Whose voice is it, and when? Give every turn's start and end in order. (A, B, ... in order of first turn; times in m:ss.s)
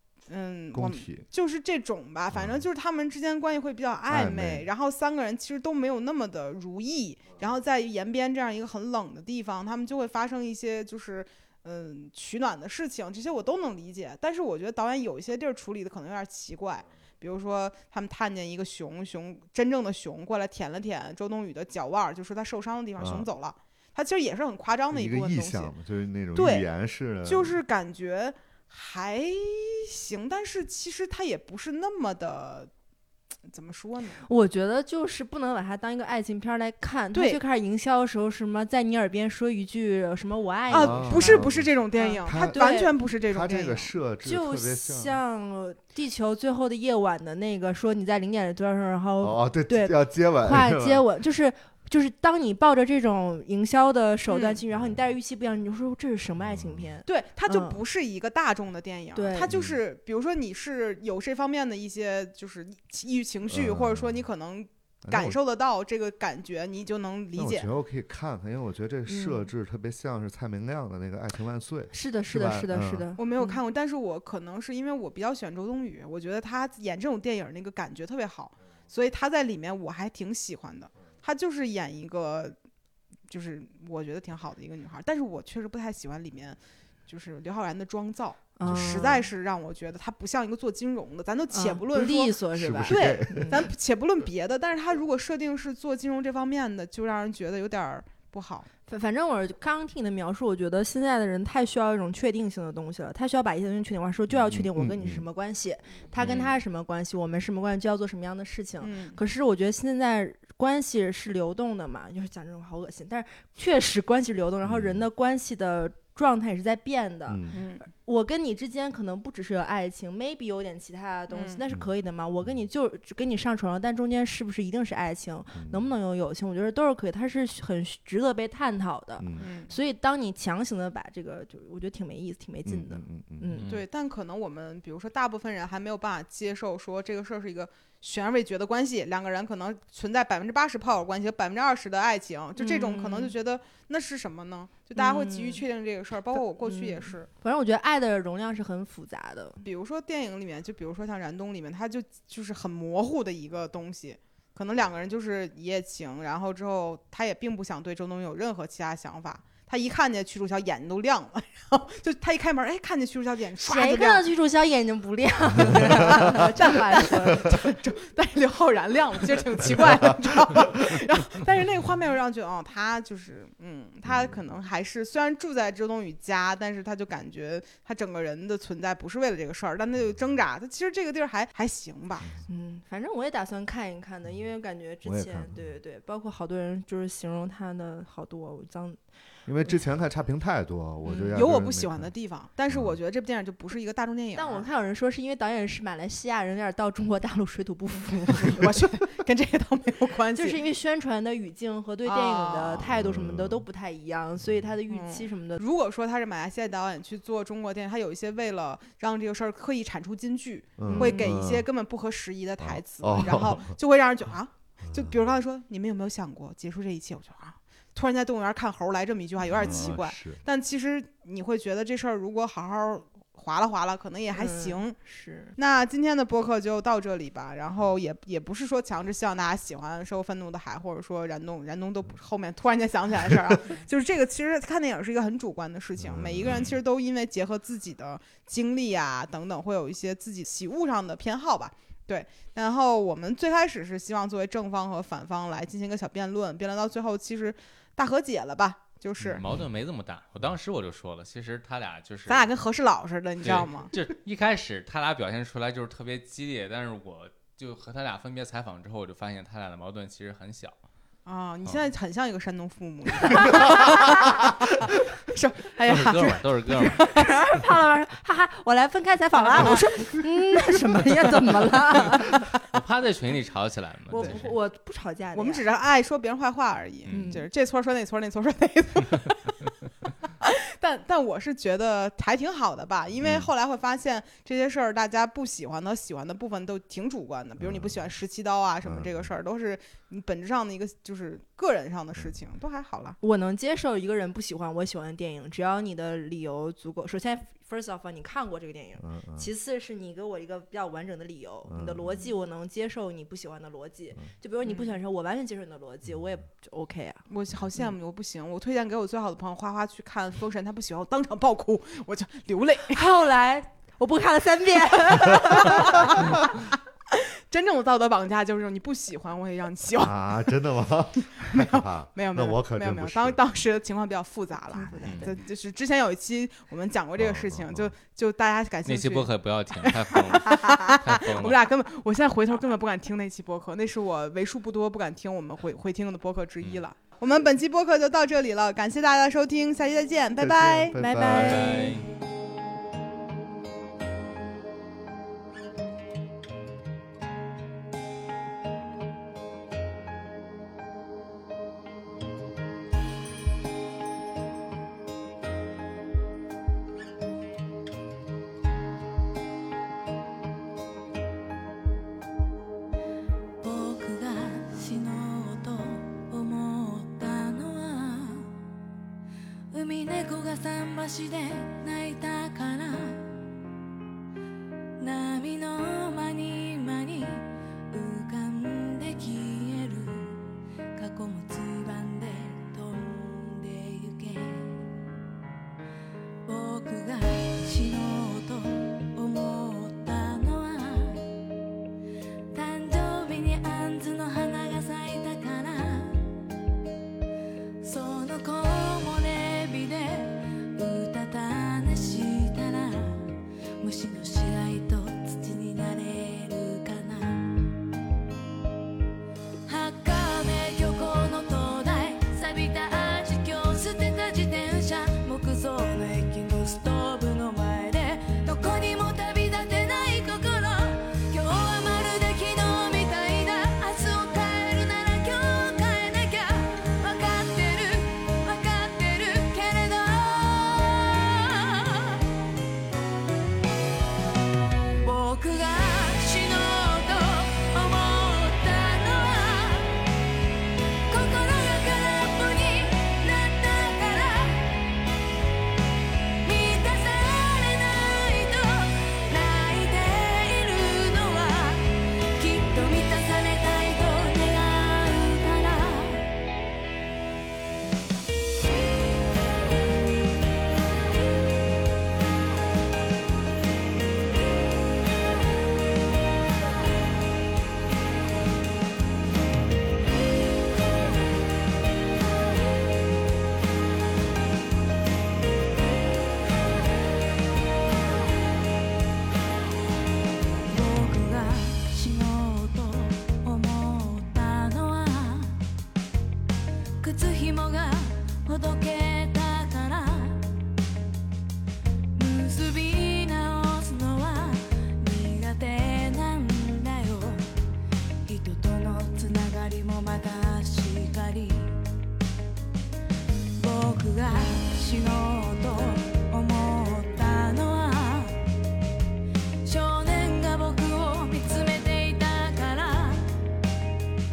0:00.3-0:25.7 A
0:00.7-0:01.2 B
0:02.3-0:02.6 B
0:04.1-0:04.7 B
0:23.0-0:23.3 B
0:24.9-0:27.6 B
0:26.3-0:26.6 A
0:27.2-0:32.7 A
0:33.5-0:34.2 A
0:34.2-0:42.9 C
0:37.1-0:37.4 A
0:40.7-0:43.9 A
0:40.8-0:41.7 B
0:42.2-0:45.2 B
0:44.2-0:57.8 C
0:49.2-0:51.0 B
0:54.3-0:54.6 A
0:56.4-0:56.9 B
0:57.0-1:07.7 A
0:59.1-0:59.5 C
0:59.5-0:59.8 B
1:03.5-1:04.2 B
1:05.0-1:05.4 B
1:07.4-1:13.1 B
1:09.1-1:09.5 C
1:11.9-1:13.6 C
1:13.2-1:22.6 A
1:23.3-1:32.4 A
1:28.6-1:29.3 C
1:28.6-1:29.0 B
1:31.5-1:33.6 C
1:32.5-1:33.7 B
1:32.9-1:38.7 A
1:38.9-2:13.7 C
1:44.3-1:45.2 B
1:46.2-1:46.5 D
1:48.8-1:49.2 A
1:54.6-1:55.0 B
1:57.3-1:57.6 B
1:57.5-1:57.8 A
2:01.3-2:01.6 A
2:05.5-2:05.9 B
2:09.2-2:09.5 B
2:09.4-2:09.7 A
2:12.6-2:13.6 B
2:13.5-2:13.8 D
2:13.7-2:27.3 A
2:22.6-2:23.3 C
2:25.0-2:25.6 C
2:26.3-2:29.6 C
2:29.6-2:44.3 A
2:43.6-2:47.7 C
2:45.6-2:46.4 B
2:45.7-3:02.3 A
2:54.0-2:54.4 B
3:02.4-3:09.0 C
3:05.0-3:05.7 B
3:09.5-3:12.1 B
3:11.0-3:11.5 C
3:11.3-3:14.7 A
3:12.7-3:13.0 B
3:14.3-3:18.7 C
3:18.3-3:20.6 A
3:20.3-3:25.6 C
3:22.0-3:22.9 A
3:22.8-3:23.6 B
3:24.9-3:45.0 A
3:30.8-3:31.7 B
3:30.8-3:31.3 C
3:32.6-3:33.7 B
3:34.8-3:35.4 B
3:39.5-3:40.4 B
3:44.3-3:45.6 C
3:45.6-4:09.4 A
3:56.0-3:56.7 B
3:56.4-3:56.8 D
4:09.2-4:12.5 D
4:12.3-4:13.9 A
4:13.4-4:20.7 D
4:21.2-4:27.4 A
4:23.3-4:24.1 C
4:25.8-4:27.1 D
4:26.9-4:32.5 C
4:29.4-4:31.2 A
4:32.7-4:34.5 D
4:34.1-4:35.6 C
4:34.2-4:34.4 A
4:35.3-4:39.6 A
4:37.0-4:37.3 D
4:37.1-4:37.4 C
4:40.4-4:53.2 A
4:47.6-4:48.0 B
4:48.8-4:49.3 B
4:53.2-5:07.2 C
4:59.0-4:59.5 B
5:01.7-5:02.3 B
5:04.6-5:05.0 A
5:07.3-5:13.0 A
5:12.9-5:16.5 C
5:15.5-5:16.4 A
5:17.1-5:20.1 A
5:19.9-5:23.4 B
5:21.4-5:41.0 A
5:24.7-5:25.4 C
5:25.0-5:25.3 D
5:27.2-5:27.9 B
5:28.8-5:31.6 D
5:40.4-5:41.8 B
5:40.9-5:42.0 C
5:41.3-5:42.1 D
6:03.6-6:08.5 E
6:09.7-6:13.3 E
6:15.0-6:24.9 E
6:26.4-6:31.2 E
6:32.5-6:36.3 E
6:37.8-6:47.6 E
6:49.6-7:12.2 E
7:15.0-7:20.0 E
7:21.1-7:24.7 E
7:26.4-7:36.3 E
8:00.6-8:05.6 E
8:07.0-8:10.4 E
8:12.1-8:17.4 E
8:18.2-8:21.8 E
8:23.6-8:28.4 E
8:29.6-8:33.2 E